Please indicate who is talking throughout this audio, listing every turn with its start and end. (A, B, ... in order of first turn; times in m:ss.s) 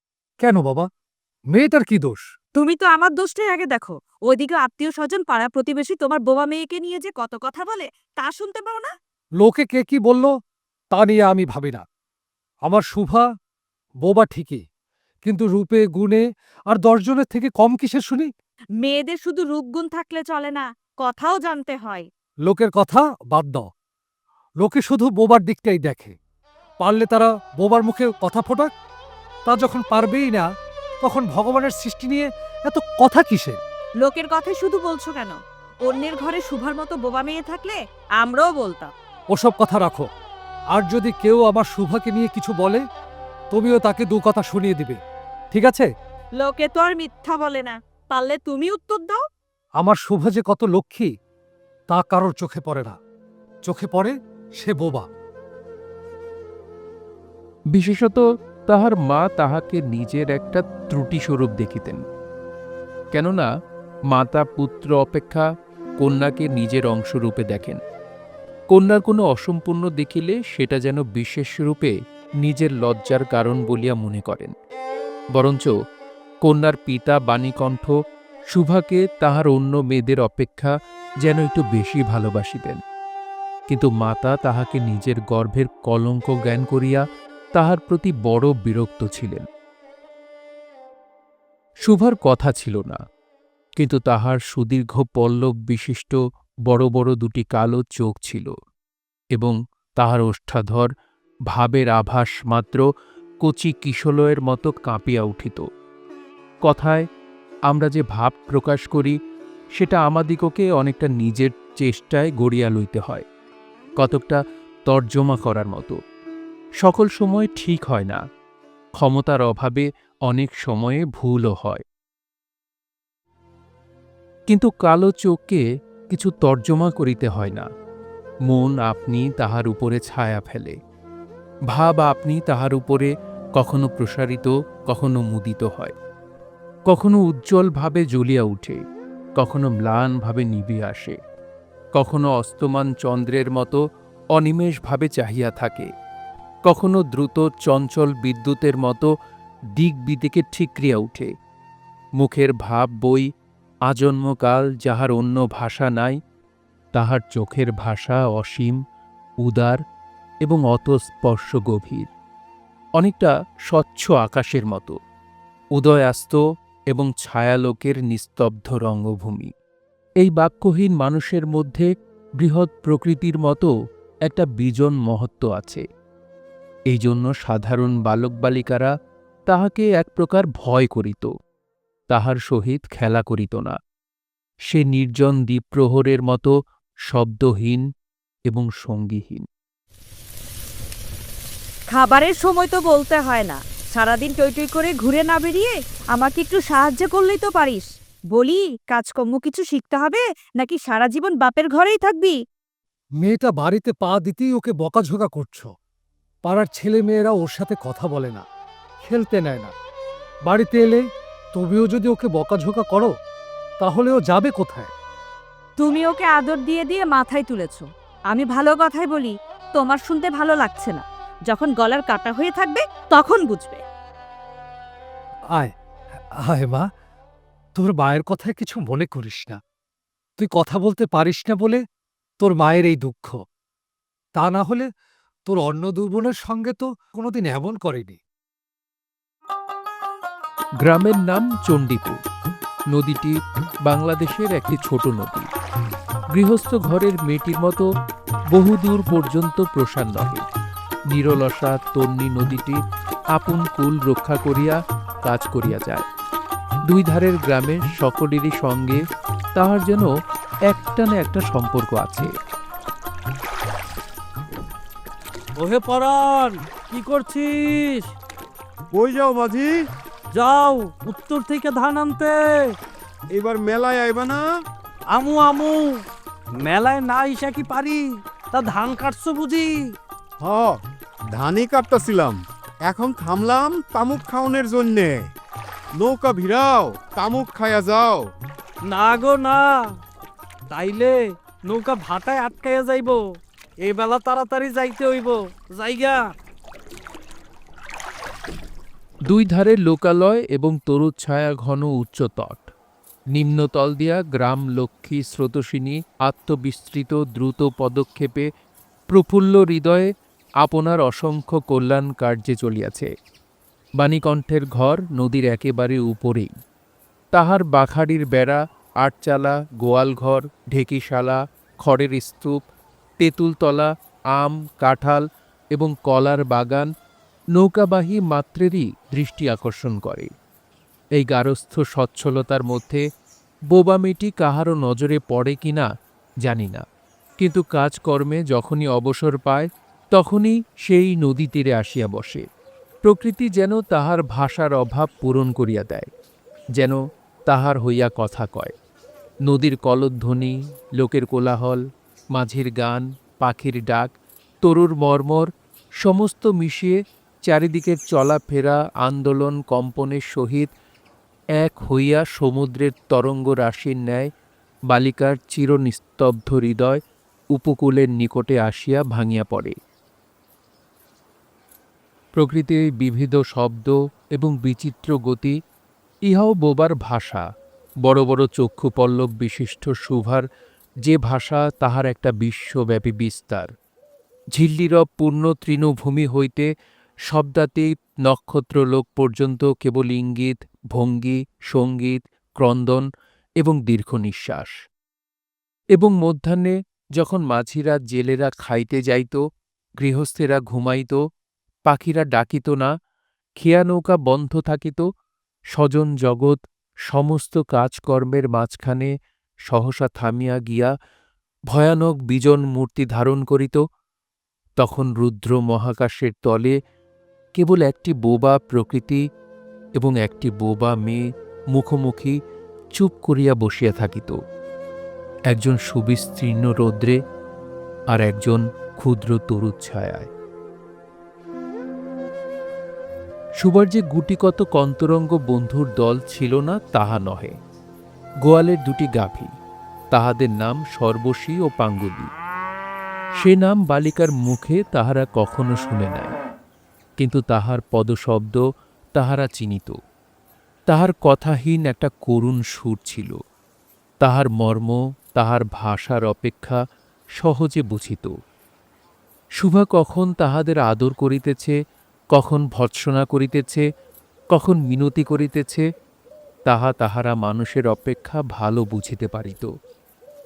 0:00.4-0:00.9 A
0:01.5-0:02.2 A
0:02.6-0:08.9 B
0:09.4-0:10.3 A
0:10.9-0:11.8 A
0:12.7-0:13.2 A
0:14.0-0:14.6 A
0:15.2-0:18.3 A
0:18.8-0:22.0 B
0:22.5-0:23.7 A
0:24.6-0:26.1 A
0:26.8-0:28.7 A
0:29.5-0:30.4 A
0:31.0-0:33.6 A
0:34.0-0:38.9 B
0:39.3-0:40.0 A
0:40.7-0:42.8 A
0:43.5-0:45.0 A
0:45.5-0:45.9 A
0:46.4-0:49.2 B
0:49.8-0:51.1 A
0:51.9-0:53.0 A
0:53.6-0:55.1 A
0:57.7-1:02.0 C
1:03.1-1:03.5 C
1:04.1-1:05.4 C
1:06.0-1:07.8 C
1:08.7-1:11.9 C
1:12.4-1:14.5 C
1:15.3-1:15.7 C
1:16.4-1:17.9 C
1:18.5-1:20.7 C
1:21.2-1:22.8 C
1:23.7-1:27.0 C
1:27.5-1:29.4 C
1:31.8-1:33.0 C
1:33.8-1:36.2 C
1:36.7-1:38.5 C
1:39.4-1:40.9 C
1:41.5-1:42.8 C
1:43.4-1:45.6 C
1:46.6-1:47.0 C
1:47.7-1:49.2 C
1:49.8-1:53.2 C
1:54.0-1:56.0 C
1:56.8-1:58.2 C
1:59.0-2:01.8 C
2:04.5-2:07.6 C
2:08.5-2:10.8 C
2:11.7-2:15.9 C
2:16.9-2:18.8 C
2:19.4-2:21.2 C
2:22.0-2:23.8 C
2:24.3-2:25.9 C
2:26.6-2:29.1 C
2:29.8-2:31.3 C
2:32.2-2:33.3 C
2:33.9-2:36.2 C
2:36.9-2:38.8 C
2:39.4-2:39.8 C
2:40.4-2:42.1 C
2:43.0-2:44.9 C
2:45.8-2:46.4 C
2:46.9-2:49.5 C
2:50.2-2:51.9 C
2:52.4-2:53.7 C
2:54.3-2:55.8 C
2:56.9-2:58.9 C
2:59.5-3:01.3 C
3:02.1-3:03.7 C
3:04.7-3:06.5 C
3:07.1-3:07.8 C
3:08.5-3:09.4 C
3:11.9-3:22.4 B
3:23.2-3:25.7 A
3:26.4-3:28.4 A
3:29.0-3:29.7 A
3:30.5-3:31.0 A
3:31.5-3:33.1 A
3:33.8-3:34.9 A
3:35.8-3:43.8 B
3:46.4-3:46.8 A
3:47.8-3:49.6 A
3:50.4-3:51.8 A
3:52.4-3:53.4 A
3:54.4-3:54.9 A
3:55.4-3:58.2 A
4:00.8-4:02.2 C
4:02.9-4:03.3 C
4:03.8-4:05.5 C
4:06.3-4:07.8 C
4:08.5-4:10.4 C
4:11.1-4:12.8 C
4:13.3-4:16.1 C
4:16.9-4:19.0 C
4:19.6-4:20.1 C
4:20.7-4:22.3 C
4:25.6-4:28.0 D
4:28.9-4:29.7 E
4:30.3-4:32.4 D
4:33.3-4:34.4 E
4:35.1-4:35.9 D
4:36.6-4:39.8 D
4:40.4-4:40.8 E
4:41.3-4:45.3 E
4:46.0-4:48.2 E
4:48.9-4:49.8 D
4:50.7-4:51.2 D
4:51.7-4:53.2 D
4:53.8-4:56.2 D
4:59.3-5:02.7 C
5:03.3-5:08.5 C
5:09.1-5:10.1 C
5:10.6-5:13.1 C
5:14.0-5:16.5 C
5:17.3-5:22.5 C
5:23.2-5:25.2 C
5:25.7-5:26.9 C
5:27.6-5:30.3 C
5:31.2-5:33.0 C
5:33.7-5:35.9 C
5:36.4-5:36.8 C
5:37.4-5:42.4 C
5:43.0-5:46.1 C
5:47.5-5:48.7 C
5:49.5-5:51.8 C
5:52.3-5:55.5 C
5:56.0-5:57.0 C
5:57.5-6:00.7 C
6:01.6-6:04.3 C
6:04.9-6:07.0 C
6:07.5-6:09.7 C
6:12.4-6:15.5 C
6:16.3-6:17.4 C
6:18.0-6:20.4 C
6:21.0-6:23.7 C
6:24.5-6:26.7 C
6:27.3-6:33.0 C
6:33.6-6:34.7 C
6:36.0-6:39.4 C
6:40.0-6:41.2 C
6:41.9-6:42.9 C
6:43.6-6:45.0 C
6:45.7-6:46.6 C
6:47.1-6:49.1 C
6:49.7-6:50.9 C
6:51.7-6:53.8 C
6:54.8-6:56.8 C
6:57.6-6:59.2 C
7:00.0-7:01.2 C
7:01.7-7:02.4 C
7:03.0-7:04.4 C
7:05.5-7:07.2 C
7:08.1-7:10.3 C
7:13.6-7:17.5 C
7:18.4-7:19.5 C
7:20.1-7:22.3 C
7:23.4-7:26.3 C
7:27.2-7:28.6 C
7:29.2-7:29.9 C
7:30.9-7:33.4 C
7:34.2-7:36.8 C
7:37.4-7:38.3 C
7:39.6-7:41.7 C
7:42.3-7:43.8 C
7:44.5-7:45.8 C
7:46.7-7:49.7 C